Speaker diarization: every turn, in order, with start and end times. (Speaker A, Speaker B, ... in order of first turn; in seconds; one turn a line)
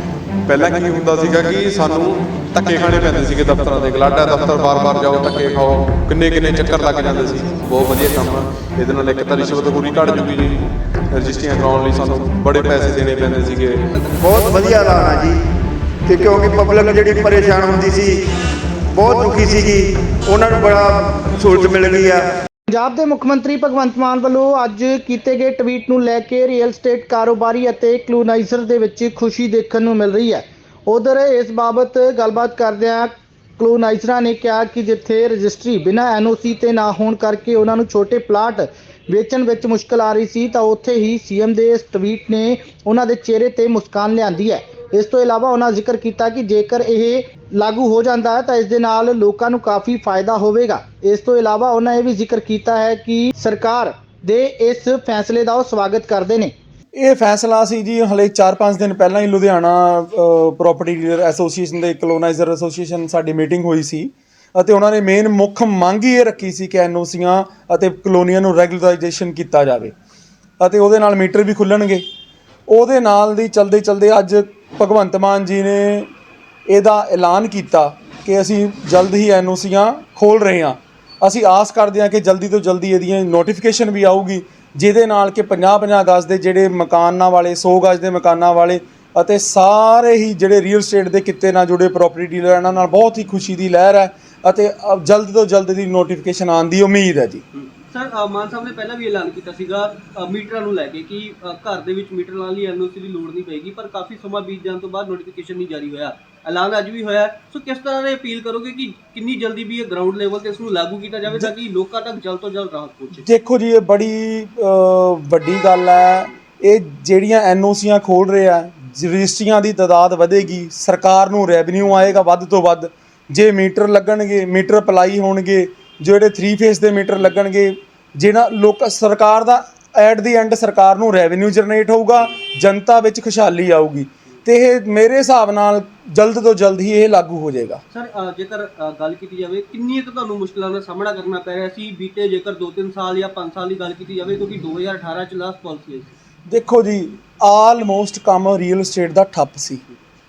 Speaker A: 0.5-10.6
Speaker A: 11.1-13.8
Speaker B: 14.2-15.4
Speaker B: 16.1-18.2
Speaker B: 18.9-22.3
Speaker C: 22.7-56.5
Speaker D: 57.0-69.9
Speaker D: 70.6-72.0
Speaker D: 72.7-76.1
Speaker D: 76.7-97.4
Speaker E: 97.6-113.2
Speaker D: 113.2-137.8
Speaker E: 137.9-146.1
Speaker D: 146.5-149.8